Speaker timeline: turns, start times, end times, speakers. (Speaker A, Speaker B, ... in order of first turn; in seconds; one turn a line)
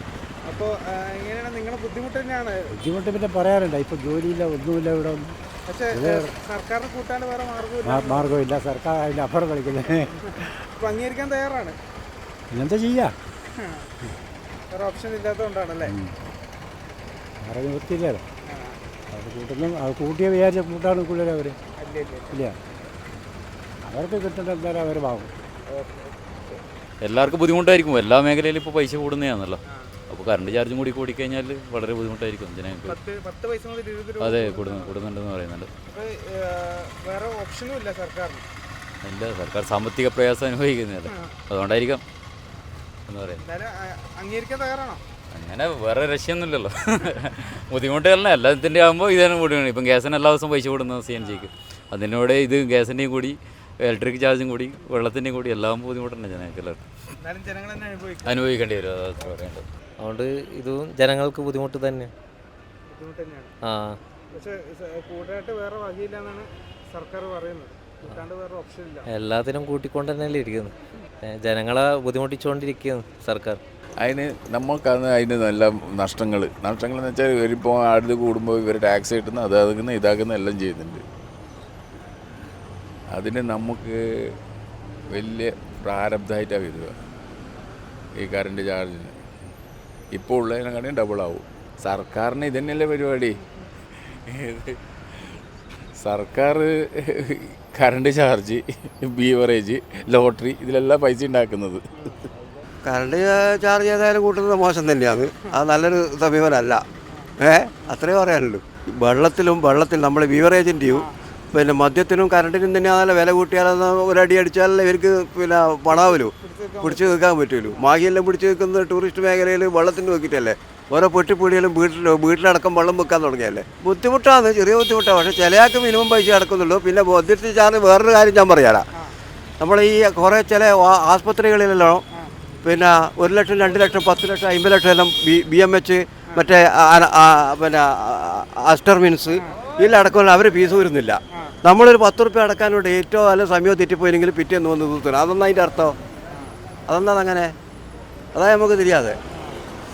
Speaker A: 0.4-2.5
Speaker B: 2.7-5.3
Speaker A: 5.7-8.4
Speaker B: 5.9-6.3
Speaker B: 7.8-10.1
Speaker A: 10.8-11.8
Speaker B: 12.5-13.1
Speaker A: 13.6-13.9
Speaker A: 14.7-15.9
Speaker B: 15.8-16.1
Speaker B: 17.4-18.2
Speaker A: 18.5-18.8
Speaker B: 19.1-21.6
Speaker A: 21.8-22.4
Speaker B: 23.8-25.3
Speaker A: 25.7-26.1
Speaker C: 27.0-33.0
Speaker A: 32.9-35.0
Speaker C: 34.2-35.7
Speaker A: 35.9-38.4
Speaker C: 39.0-42.0
Speaker C: 43.1-43.4
Speaker A: 43.4-45.0
Speaker C: 45.3-56.8
Speaker A: 51.2-51.5
Speaker A: 57.2-58.3
Speaker C: 58.2-59.6
Speaker D: 60.0-62.1
Speaker A: 62.9-63.5
Speaker D: 63.6-64.0
Speaker A: 64.3-69.0
Speaker D: 69.0-73.6
Speaker E: 74.0-81.0
Speaker E: 83.1-84.3
Speaker E: 85.1-86.9
Speaker E: 88.2-89.1
Speaker E: 90.1-93.4
Speaker E: 94.0-95.4
Speaker E: 96.0-101.8
Speaker A: 102.0-102.2
Speaker F: 102.8-106.8
Speaker F: 107.4-128.9
Speaker A: 110.8-111.1
Speaker A: 116.0-117.2
Speaker F: 129.6-132.0
Speaker F: 132.6-145.9
Speaker F: 146.9-147.5
Speaker F: 148.3-149.2